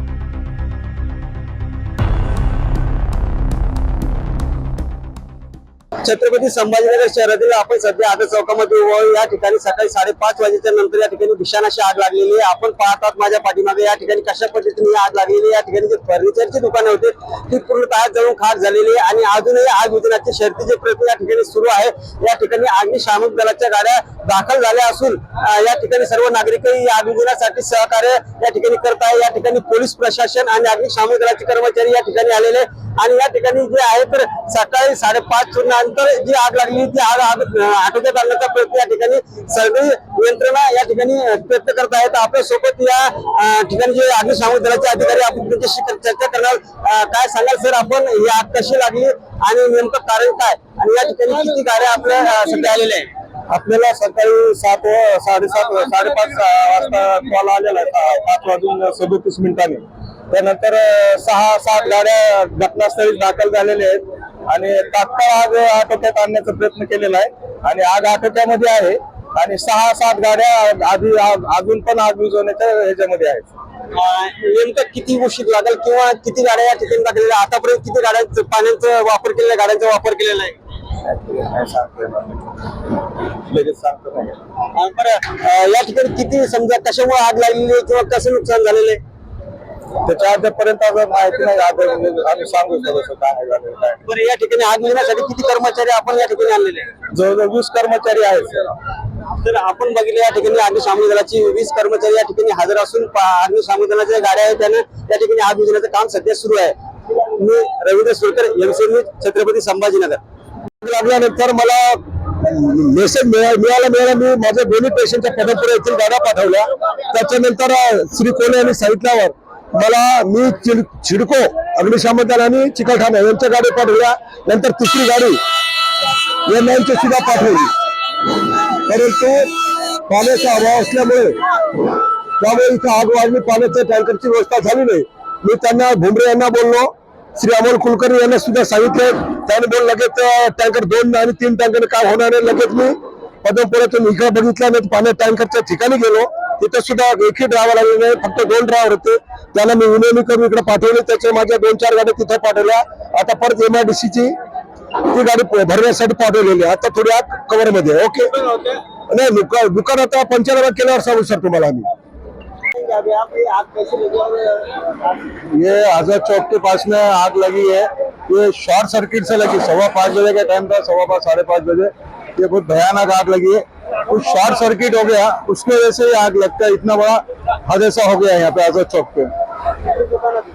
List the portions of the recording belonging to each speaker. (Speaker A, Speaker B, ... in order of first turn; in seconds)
Speaker A: 6.0-53.1, 73.9-80.5, 84.7-89.0, 94.0-96.9, 99.3-106.7, 107.4-110.2, 158.4-158.8, 162.7-165.3, 180.0-180.4
Speaker B: 53.5-73.5, 81.1-82.4, 83.5-84.4, 90.0-94.0, 97.1-98.8, 110.8-125.4, 126.4-127.7, 128.7-131.4, 132.4-154.3, 155.1-158.4, 159.1-161.9, 165.5-179.3